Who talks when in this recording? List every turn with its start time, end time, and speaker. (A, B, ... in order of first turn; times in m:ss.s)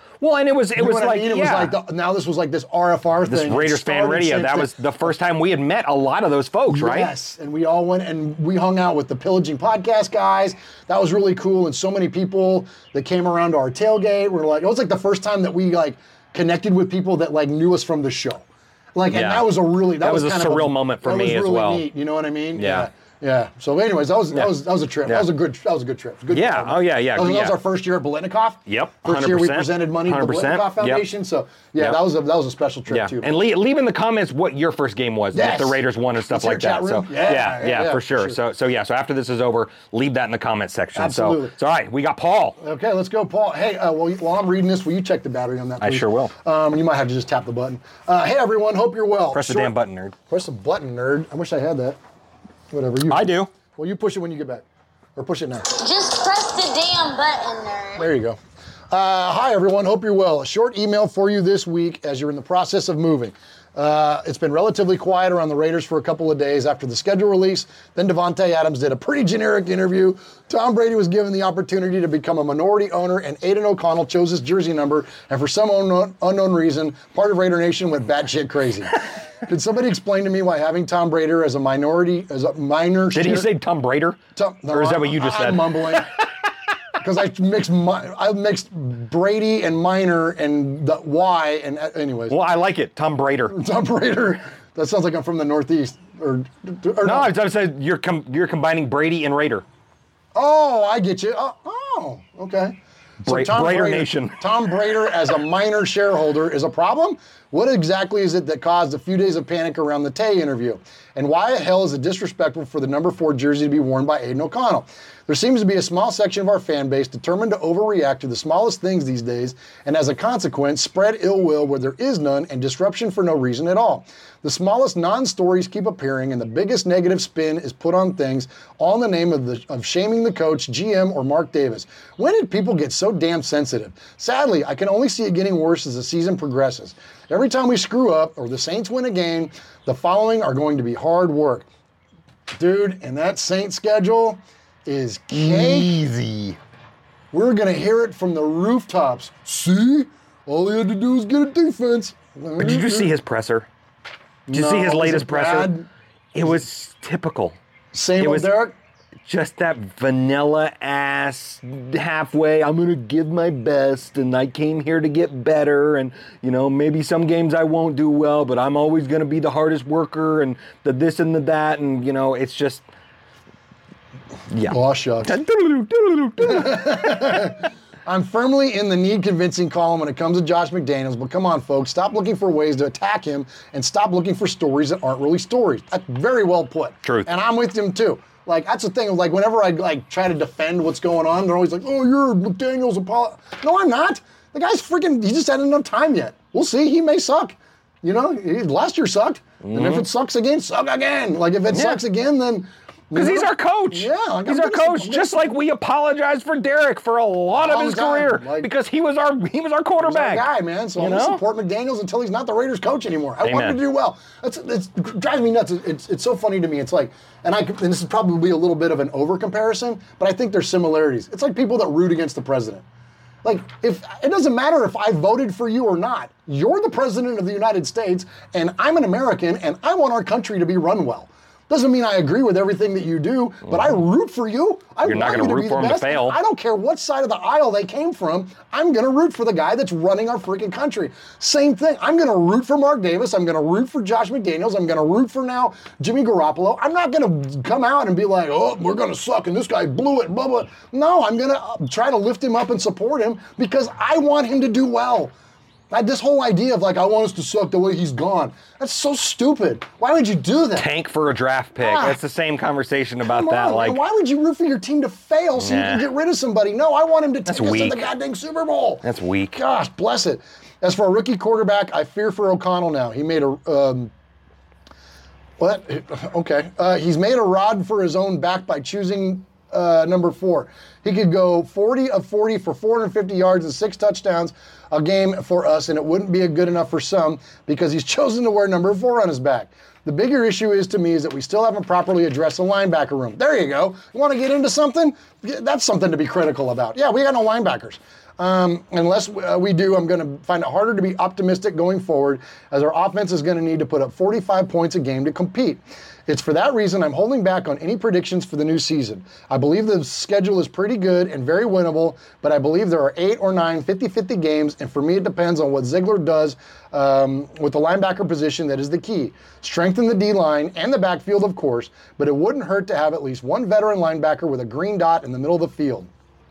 0:00.2-0:01.8 A
0:00.8-0:04.8 B
0:03.3-0:07.1 A
0:06.7-0:33.3 B
0:19.1-0:21.9 A
0:22.6-0:22.9 A
0:24.3-0:25.3 A
0:26.3-0:27.6 A
0:28.7-0:31.0 A
0:32.9-0:42.6 A
0:35.3-0:38.4 B
0:40.9-0:41.5 B
0:42.6-0:49.8 B
0:45.8-0:46.3 A
0:49.3-0:50.1 A
0:50.3-0:52.0 B
0:52.7-0:54.6 B
0:53.1-0:53.5 A
0:55.2-0:55.7 B
0:55.7-0:58.1 C
0:58.0-0:58.4 B
0:58.9-1:23.5 B
1:23.1-1:26.0 A
1:24.4-1:26.1 B
1:27.0-1:32.4 B
1:32.3-1:33.6 A
1:33.5-1:37.3 B
1:37.0-1:39.6 A
1:40.3-2:21.6 B
1:43.2-1:44.4 A
2:22.5-2:25.9 B
2:25.3-2:26.6 A
2:27.3-2:33.1 B
2:32.6-2:33.7 A
2:34.5-2:35.9 B
2:34.5-2:35.7 A
2:36.3-2:37.6 A
2:37.9-2:38.7 B
2:38.2-2:38.5 A
2:39.2-2:52.8 A
2:54.5-2:57.5 A
2:54.7-2:55.3 B
2:56.4-3:25.4 B
3:07.0-3:07.3 A
3:19.6-3:20.0 A
3:21.7-3:22.0 A
3:23.1-3:31.4 A
3:27.5-3:28.7 B
3:30.0-3:42.8 B
3:33.4-3:33.8 A
3:43.4-4:15.3 B
3:55.0-3:56.4 A
4:15.9-4:20.9 B
4:20.8-4:24.0 A
4:21.8-4:22.2 B
4:23.2-4:34.1 B
4:25.6-4:26.1 A
4:27.5-4:28.1 A
4:29.0-4:29.6 A
4:35.6-5:26.1 B